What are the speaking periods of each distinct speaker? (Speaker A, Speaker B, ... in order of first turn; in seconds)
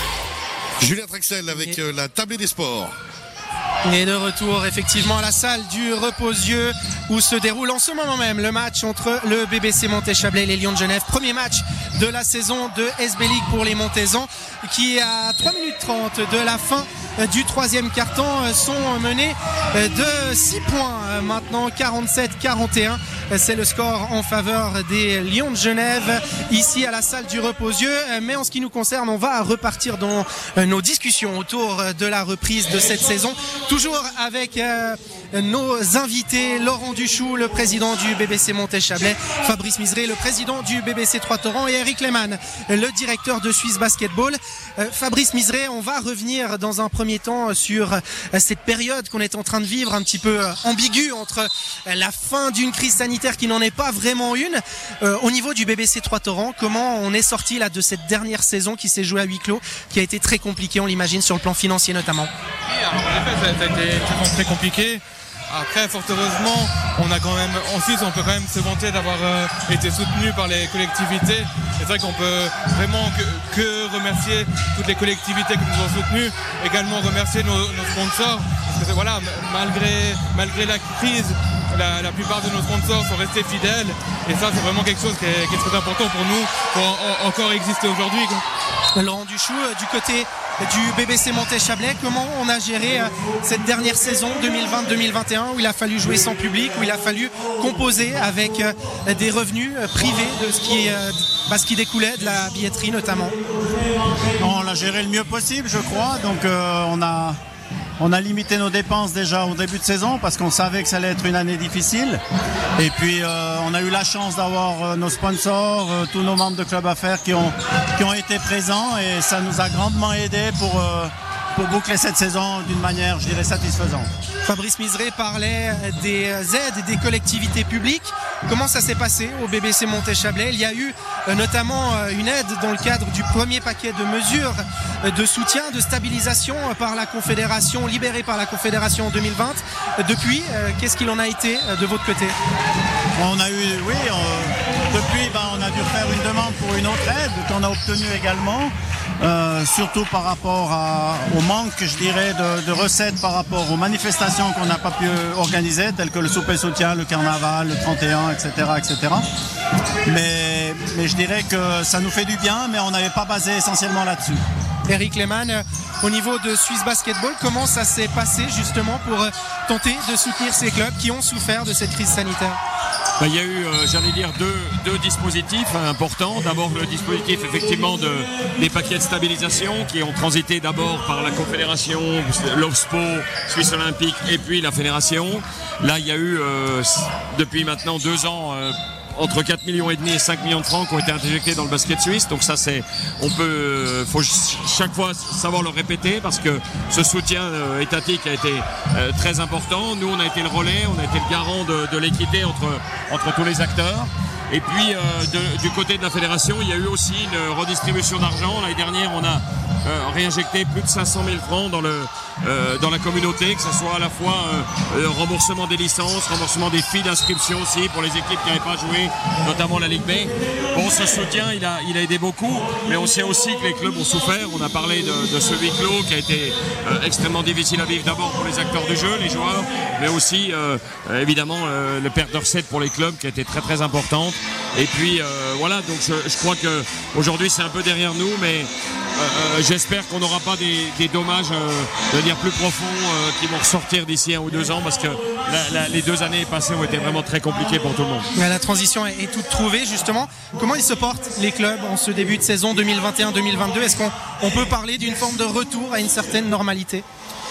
Speaker A: 0.8-3.0
Speaker B: 3.8-62.3, 88.9-103.3, 124.4-142.4, 164.9-172.6, 248.3-257.0
Speaker C: 62.6-88.4
Speaker D: 104.4-107.4, 108.0-112.2, 112.8-124.1, 143.2-159.2, 160.1-164.4
Speaker E: 173.2-248.3